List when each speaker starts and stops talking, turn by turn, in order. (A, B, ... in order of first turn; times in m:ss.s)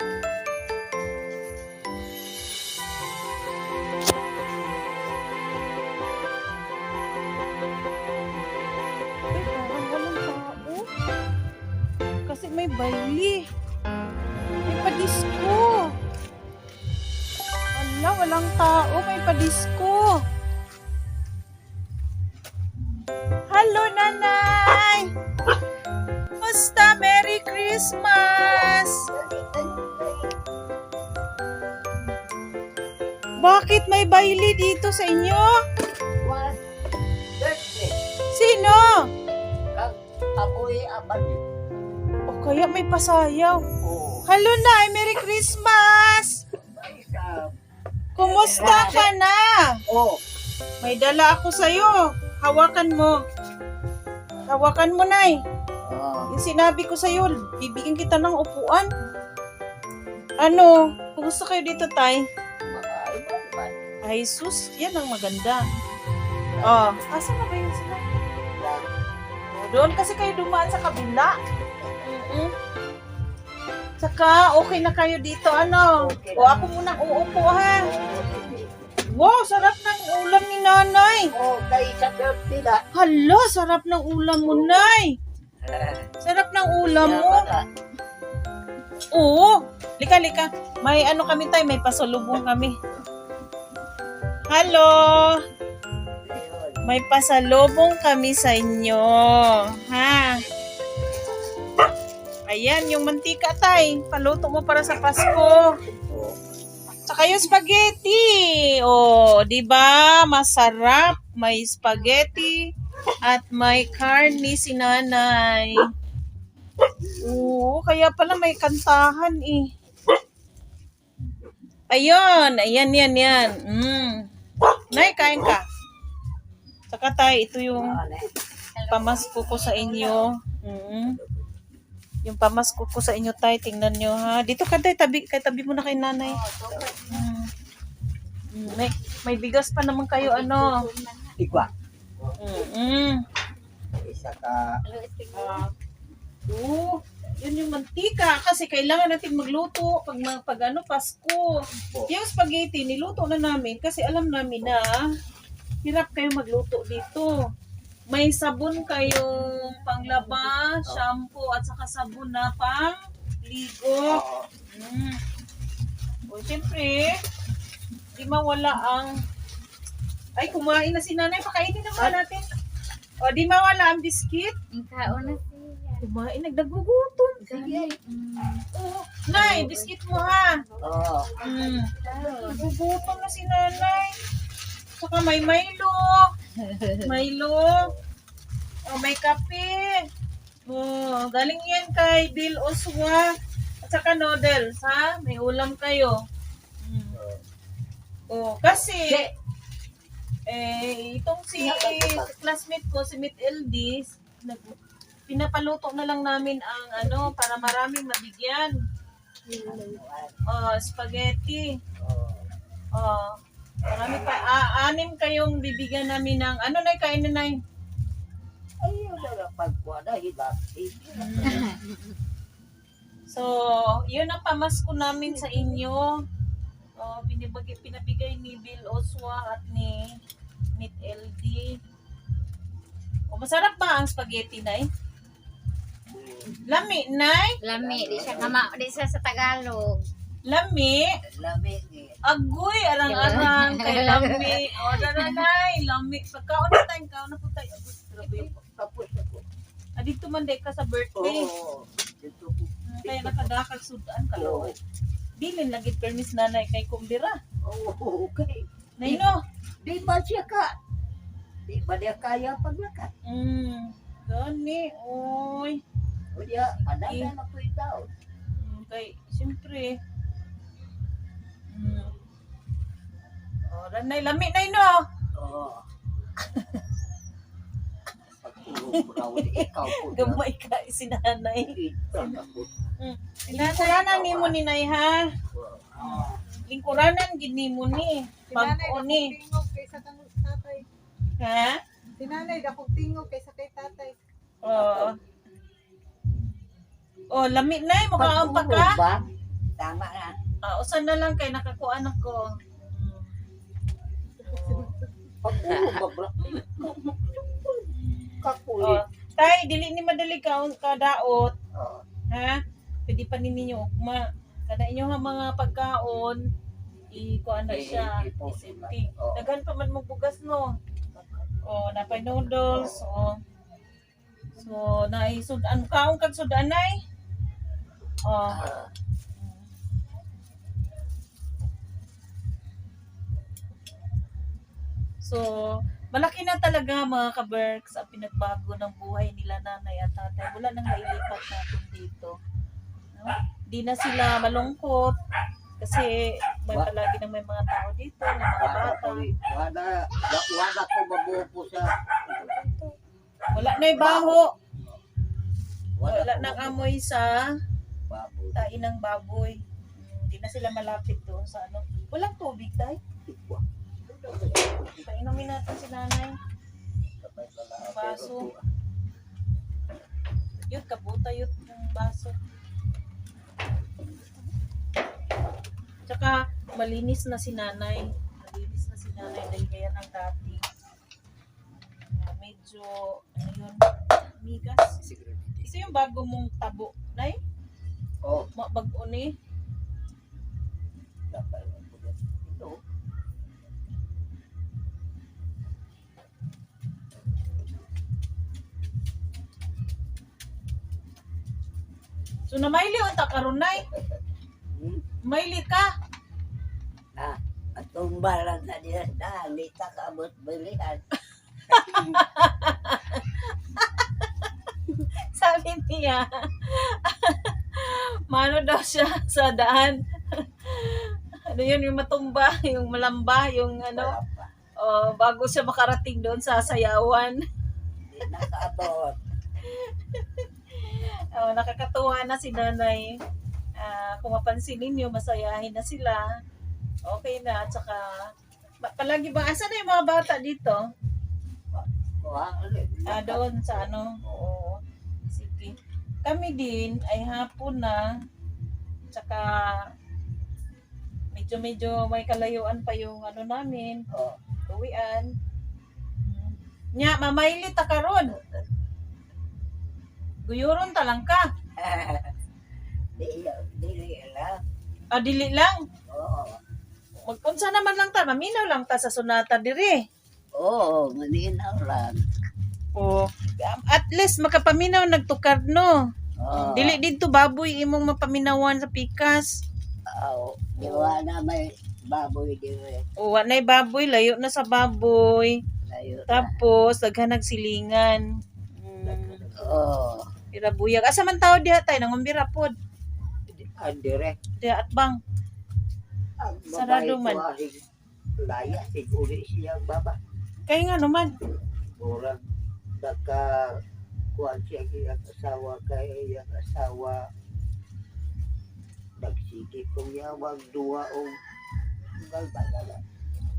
0:09.3-0:10.9 A
0:12.3-0:13.4 A
0:14.7-0:15.9 A
0:17.8-0:20.1 A
0:23.5-0:25.1 A
0:26.4-0:29.0 A
0:28.4-0:30.3 B
0:33.4-0:35.6 A
0:36.2-0:36.6 B
0:37.4-0:38.0 B
0:38.3-0:39.0 A
0:39.7-0:41.4 B
0:42.3-0:43.6 A
0:43.8-0:44.3 B
0:44.3-0:46.4 A
0:46.6-0:47.5 B
0:48.2-0:49.7 A
0:48.2-0:49.1 B
0:49.9-0:50.2 B
0:50.8-0:53.2 A
0:54.5-0:55.4 A
0:55.8-0:56.3 B
0:56.3-0:58.9 A
1:00.4-1:02.2 A
1:02.7-1:03.8 B
1:04.0-1:05.6 A
1:06.5-1:06.9 B
1:06.6-1:08.0 A
1:08.6-1:08.8 B
1:09.5-1:11.3 A
1:12.0-1:12.5 A
1:14.0-1:17.8 A
1:16.0-1:16.6 B
1:17.8-1:18.7 B
1:19.1-1:21.3 A
1:21.3-1:22.8 B
1:22.9-1:25.1 A
1:24.4-1:24.9 B
1:25.6-1:26.1 B
1:26.2-1:27.5 A
1:27.0-1:27.6 B
1:29.1-1:32.7 A
1:34.5-1:35.4 A
1:36.2-1:36.8 B
1:36.8-1:40.4 A
1:42.5-1:45.7 A
1:46.1-1:46.3 B
1:47.1-1:52.6 A
1:53.2-1:55.9 A
1:57.1-1:59.6 A
2:01.9-2:04.2 A
2:04.9-2:05.6 A
2:04.9-2:05.2 B
2:06.9-2:08.0 A
2:07.8-2:08.3 B
2:08.8-2:10.2 C
2:08.9-2:11.2 A
2:12.2-2:16.4 A
2:16.2-2:17.2 C
2:17.1-2:17.5 A
2:18.5-2:20.7 A
2:20.2-2:21.5 C
2:21.4-2:21.7 B
2:22.4-2:23.2 A
2:24.0-2:24.7 B
2:24.8-2:25.6 C
2:25.3-2:25.7 A
2:26.5-2:31.5 A
2:32.1-2:35.0 A
2:35.8-2:37.3 A
2:38.1-2:45.2 A
2:44.1-2:44.5 B
2:46.3-2:47.2 A
2:48.1-2:49.1 A
2:50.4-2:52.4 A
2:53.2-2:54.5 A
2:54.7-2:56.0 C
2:56.0-2:57.7 A
2:57.4-3:03.3 C
2:59.2-3:00.6 A
3:00.8-3:01.4 B
3:01.4-3:04.2 A
3:05.0-3:06.2 A
3:06.6-3:07.1 C
3:07.0-3:07.9 A
3:08.9-3:10.0 A
3:10.7-3:13.3 A
3:13.8-3:16.2 A
3:16.8-3:17.2 A
3:17.2-3:17.4 B
3:18.3-3:19.2 A
3:20.5-3:24.8 A
3:21.6-3:22.3 B
3:25.3-3:28.7 A
3:29.5-3:30.0 D
3:29.6-3:30.3 B
3:30.5-3:31.7 A
3:32.0-3:32.5 B
3:33.0-3:33.3 A
3:33.9-3:37.6 A
3:38.8-3:41.8 B
3:41.1-3:41.7 A
3:41.5-3:41.8 C
3:43.3-3:46.1 A
3:47.0-3:50.0 A
3:50.8-3:51.7 A
3:53.3-3:54.8 A
3:56.1-3:56.6 B
3:56.6-3:57.6 A
3:57.6-4:00.1 C
3:57.7-3:58.6 B
4:00.4-4:01.1 A
4:01.4-4:02.2 B
4:02.2-4:08.5 A
4:03.1-4:05.4 C
4:08.3-4:09.4 B
4:10.0-4:11.5 A
4:11.2-4:13.5 B
4:12.9-4:14.7 A
4:14.4-4:14.8 B
4:15.4-4:17.4 A
4:17.6-4:19.2 B
4:19.0-4:19.4 A
4:19.8-4:20.8 B
4:21.7-4:23.1 B
4:23.2-4:25.8 A
4:26.3-4:28.1 B
4:27.1-4:27.3 A
4:28.6-4:30.0 A
4:31.7-4:32.1 A
4:33.7-4:35.0 A
4:35.3-4:35.8 B
4:38.4-4:40.4 B
4:38.9-4:41.8 A
4:41.7-4:42.7 B
4:42.1-4:42.5 D
4:43.0-4:45.3 A
4:43.5-4:44.1 D
4:44.0-4:44.6 B
4:45.5-4:46.4 B
4:46.0-4:49.3 A
4:48.5-4:50.8 D
4:51.4-4:51.8 A
4:52.2-4:54.2 D
4:54.6-4:55.1 A
4:54.7-4:55.1 B
4:57.3-4:59.0 A
4:58.2-4:59.2 B
5:00.6-5:03.3 A
5:04.5-5:05.0 D
5:05.4-5:06.6 B
5:06.5-5:07.6 A
5:08.4-5:09.0 B
5:08.8-5:11.5 A
5:11.7-5:12.0 B
5:12.3-5:16.4 A
5:17.1-5:20.7 A
5:17.7-5:19.5 B
5:21.1-5:21.4 B
5:21.6-5:23.4 A
5:22.1-5:23.0 B
5:24.6-5:27.0 A
5:28.2-5:28.7 A
5:28.5-5:28.9 B
5:29.4-5:29.7 A
5:36.1-5:42.3 A
5:43.1-5:45.1 A
5:45.8-5:49.2 A
5:48.6-5:52.7 B
5:53.5-5:54.5 A
5:53.9-5:54.4 B
5:56.0-5:56.9 B
5:56.0-5:57.4 A
5:58.1-5:58.7 B
5:58.5-6:03.0 A
6:03.3-6:05.1 B
6:04.9-6:06.4 A
6:07.2-6:08.6 B
6:07.8-6:08.5 A
6:10.7-6:12.3 A
6:16.1-6:20.6 A
6:21.7-6:23.8 A
6:24.4-6:25.0 A
6:25.6-6:27.4 A
6:28.6-6:29.3 A
6:31.3-6:32.8 B
6:42.5-6:43.8 A
6:44.7-6:45.0 B
6:45.2-6:45.9 A
6:47.2-6:51.0 B
6:51.7-7:04.2 A
7:03.9-7:04.5 B
7:04.8-7:07.4 A
7:08.1-7:09.2 B
7:08.2-7:08.9 A
7:09.6-7:13.2 A
7:13.8-7:16.2 A
7:17.1-7:18.1 A
7:18.8-7:20.8 A
7:21.7-7:23.9 B
7:23.1-7:24.8 A
7:25.3-7:28.0 A
7:29.1-7:29.5 A
7:31.3-7:34.0 A
7:34.7-7:35.3 A
7:36.2-7:38.4 A
7:40.4-7:41.4 A
7:41.8-7:42.3 B
7:43.2-7:44.6 B
7:45.1-7:45.8 A
7:46.1-7:46.6 B
7:47.2-7:50.0 A
7:50.6-7:52.2 B
7:53.0-7:55.9 A
7:56.4-7:57.0 B
7:56.5-7:59.5 A
8:00.1-8:03.0 B
8:00.8-8:01.2 A
8:03.2-8:05.6 A
8:05.9-8:06.5 B
8:06.3-8:08.2 A
8:08.8-8:09.4 A
8:09.0-8:10.2 B
8:10.5-8:12.7 A
8:13.5-8:14.4 B
8:14.6-8:15.2 A
8:16.4-8:17.8 B
8:16.7-8:17.4 A
8:18.4-8:20.2 B
8:20.7-8:21.3 A
8:22.0-8:22.4 B
8:23.0-8:23.7 B
8:24.3-8:27.2 B
8:29.2-8:31.3 B
8:32.2-8:33.0 B